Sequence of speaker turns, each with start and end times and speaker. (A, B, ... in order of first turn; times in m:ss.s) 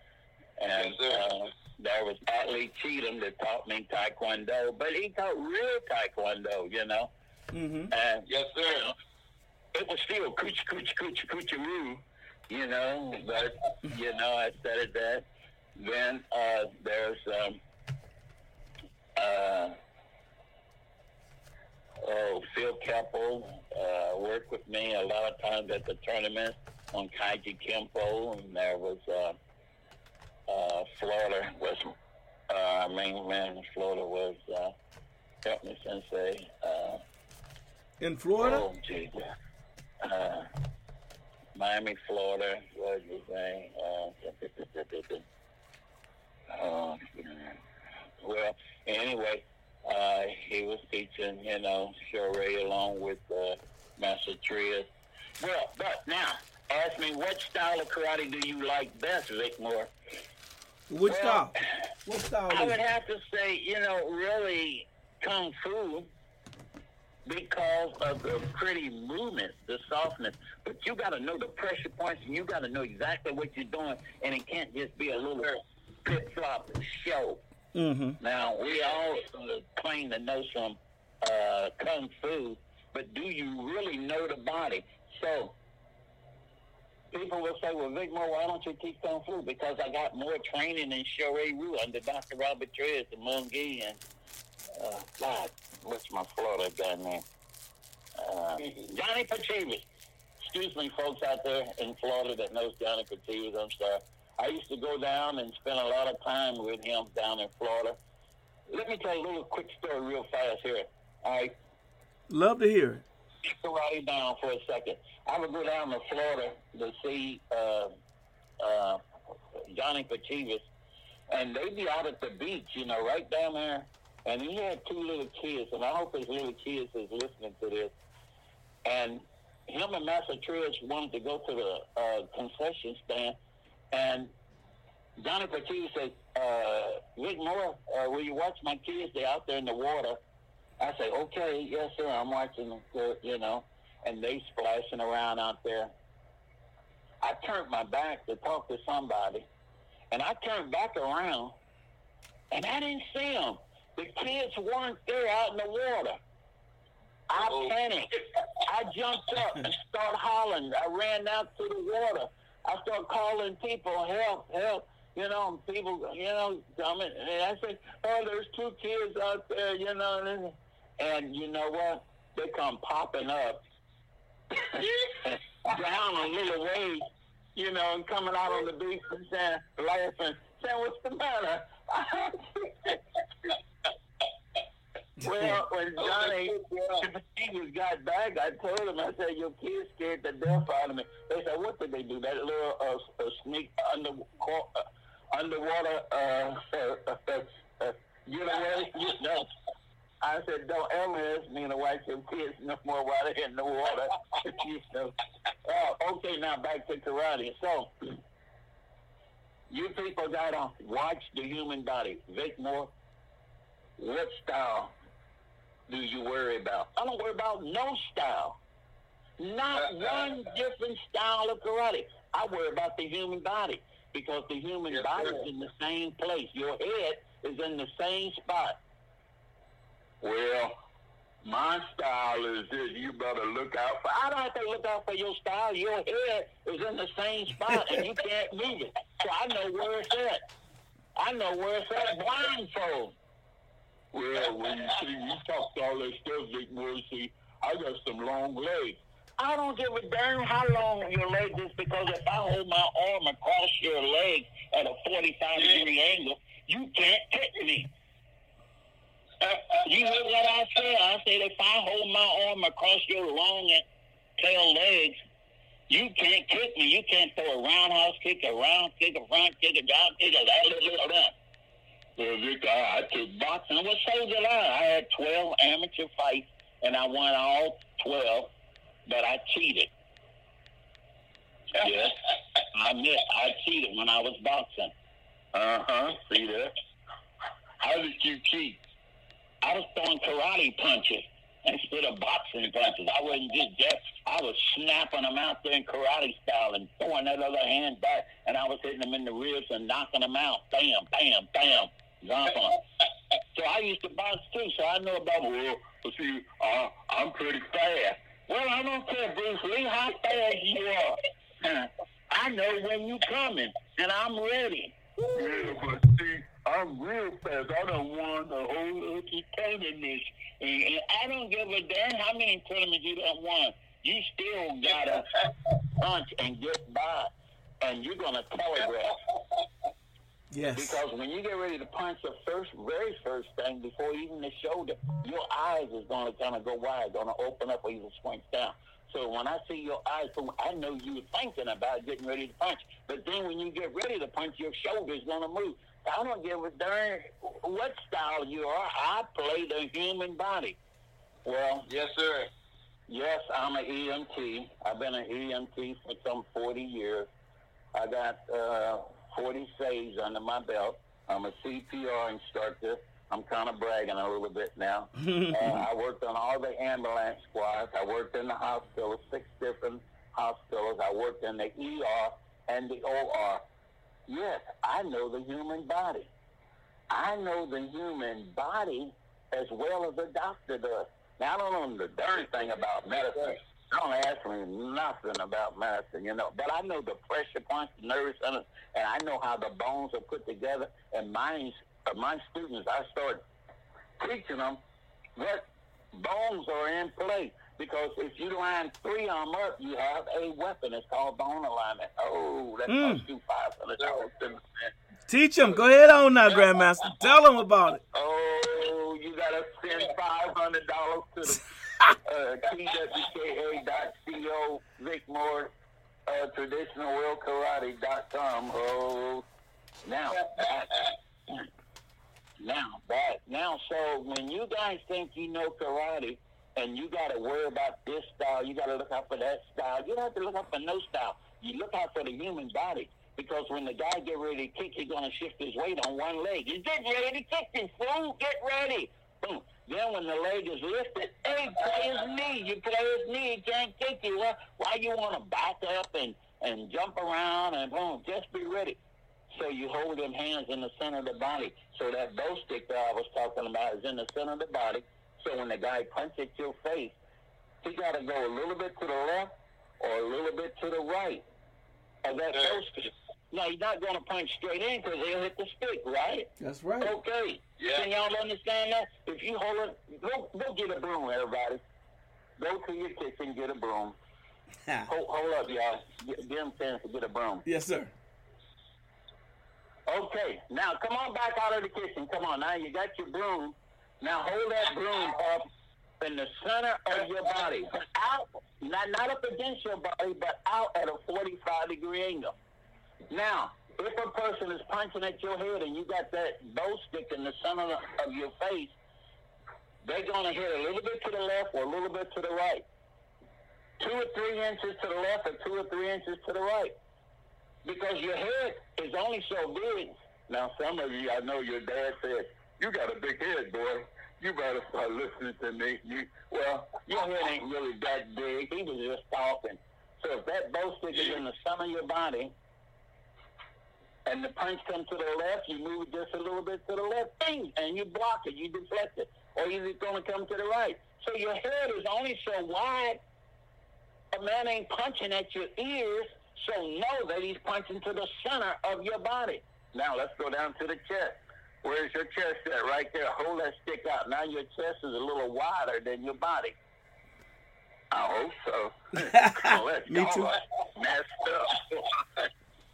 0:00.6-0:07.1 A
0:00.7-0:01.2 B
0:07.5-0:07.9 C
0:07.9-0:08.9 A
0:08.3-0:08.9 B
0:09.7-0:17.6 A
0:19.2-0:19.8 A
0:22.0-0:29.4 A
0:30.5-0:31.9 A
0:32.5-0:34.7 A
0:35.4-0:37.0 A
0:38.0-0:38.6 C
0:38.4-0:39.3 A
0:40.0-0:40.5 A
0:41.5-0:45.2 A
0:46.5-0:47.6 A
0:48.2-0:54.9 A
0:55.4-0:59.9 A
1:00.9-1:02.8 C
1:01.0-1:01.5 A
1:02.5-1:06.1 A
1:07.2-1:17.4 A
1:17.7-1:18.2 C
1:18.2-1:25.5 A
1:27.1-1:34.0 A
1:34.7-1:37.2 A
1:38.2-1:39.8 A
1:40.4-1:48.0 A
1:48.7-1:51.5 A
1:52.3-1:53.0 C
1:53.4-1:57.9 A
1:58.6-1:59.0 A
1:59.7-2:00.6 A
2:01.3-2:07.9 A
2:08.8-2:13.4 A
2:13.9-2:14.3 A
2:15.2-2:20.2 A
2:20.8-2:25.9 A
2:27.2-2:29.4 A
2:30.1-2:31.6 A
2:32.5-2:36.2 A
2:37.3-2:53.6 A
2:37.5-2:37.7 B
2:55.2-3:03.0 A
3:05.2-3:05.6 C
3:05.2-3:19.5 A
3:06.0-3:07.0 B
3:20.2-3:28.2 A
3:29.7-3:32.9 A
3:34.0-3:34.9 A
3:35.9-3:38.6 A
3:39.4-3:48.8 A
3:44.9-3:45.4 B
3:50.2-3:50.8 A
3:51.4-4:00.4 A
4:01.2-4:03.1 A
4:04.1-4:17.9 A
4:19.8-4:23.8 A
4:24.4-4:25.2 A
4:25.9-4:31.3 A
4:32.2-4:38.5 A
4:39.0-4:39.9 A
4:41.7-4:44.9 A
4:45.5-4:46.7 A
4:47.8-4:48.8 A
4:49.6-5:02.8 A
5:03.5-5:29.2 A
5:15.2-5:15.8 B
5:30.5-5:31.0 C
5:30.7-5:50.8 A
5:51.4-5:51.9 A
5:51.9-5:52.5 B
5:53.1-5:57.3 A
5:57.9-6:13.6 A
6:05.2-6:05.8 C
6:14.3-6:16.3 A
6:17.1-6:33.4 A
6:22.5-6:23.6 B
6:34.2-6:34.8 A
6:35.4-6:44.6 A
6:42.9-6:43.2 C
6:44.0-6:44.3 B
6:45.3-6:48.0 C
6:48.1-6:51.6 A
6:52.2-6:55.7 A
6:56.3-6:59.4 A
7:00.0-7:01.1 A
7:02.6-7:29.0 A
7:29.5-7:37.2 A
7:37.8-7:41.4 A
7:42.2-7:46.5 A
7:42.5-7:42.8 B
7:46.6-7:47.1 C
7:47.0-7:51.8 A
7:47.8-7:48.1 B
7:52.6-7:54.2 A
7:55.1-7:57.6 A
7:57.6-7:58.1 C
8:00.1-8:05.7 A
8:06.2-8:12.5 A
8:13.3-8:19.0 A
8:20.0-8:22.8 A
8:24.0-8:26.9 A
8:27.8-8:42.5 A
8:44.2-8:53.2 A
8:54.3-9:06.8 A
9:08.1-9:12.0 A
9:09.2-9:10.5 C